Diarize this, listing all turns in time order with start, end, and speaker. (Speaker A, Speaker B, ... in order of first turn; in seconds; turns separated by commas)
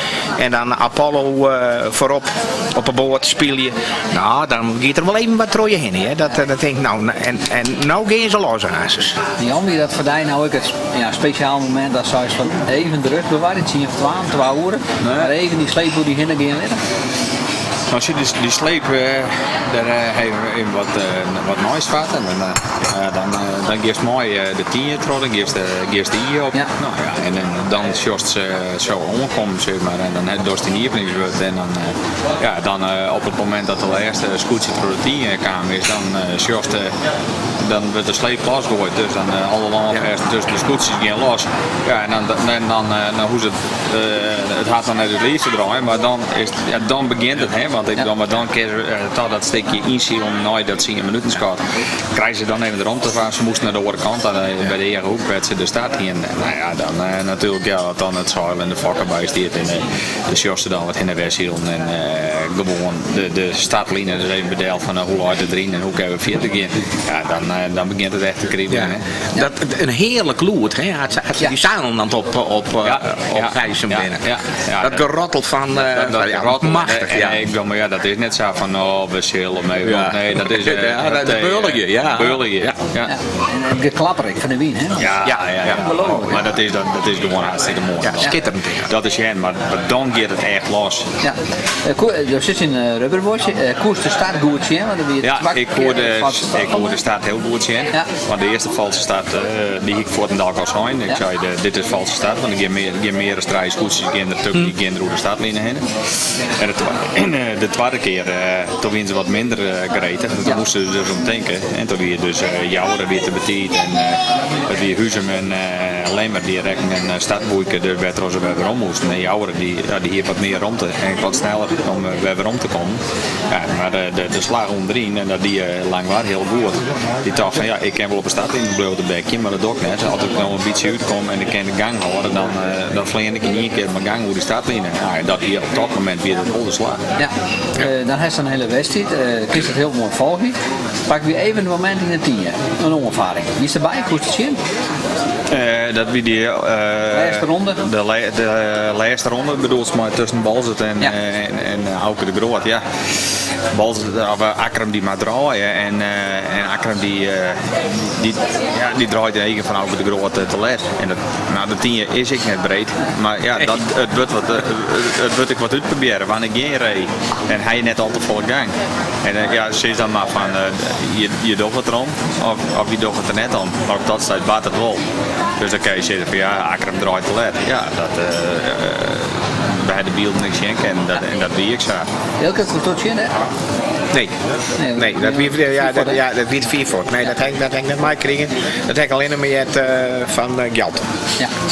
Speaker A: 0.4-9.2, Speaker B: 9.4-16.8, Speaker C: 15.0-15.3, Speaker C: 17.9-37.0, Speaker C: 37.6-69.0, Speaker A: 68.7-74.2, Speaker C: 72.8-75.1, Speaker A: 74.8-77.4, Speaker C: 75.8-83.1, Speaker A: 79.8-82.8, Speaker B: 83.1-86.5, Speaker C: 85.0-91.1, Speaker A: 85.2-85.8, Speaker A: 88.0-88.9, Speaker B: 91.2-96.8, Speaker C: 95.2-105.9, Speaker C: 106.6-137.0, Speaker B: 137.2-144.6, Speaker C: 145.5-153.1, Speaker B: 147.1-147.8, Speaker C: 153.7-175.0, Speaker C: 175.6-182.1, Speaker B: 182.4-183.4, Speaker B: 184.8-186.2, Speaker A: 184.9-191.1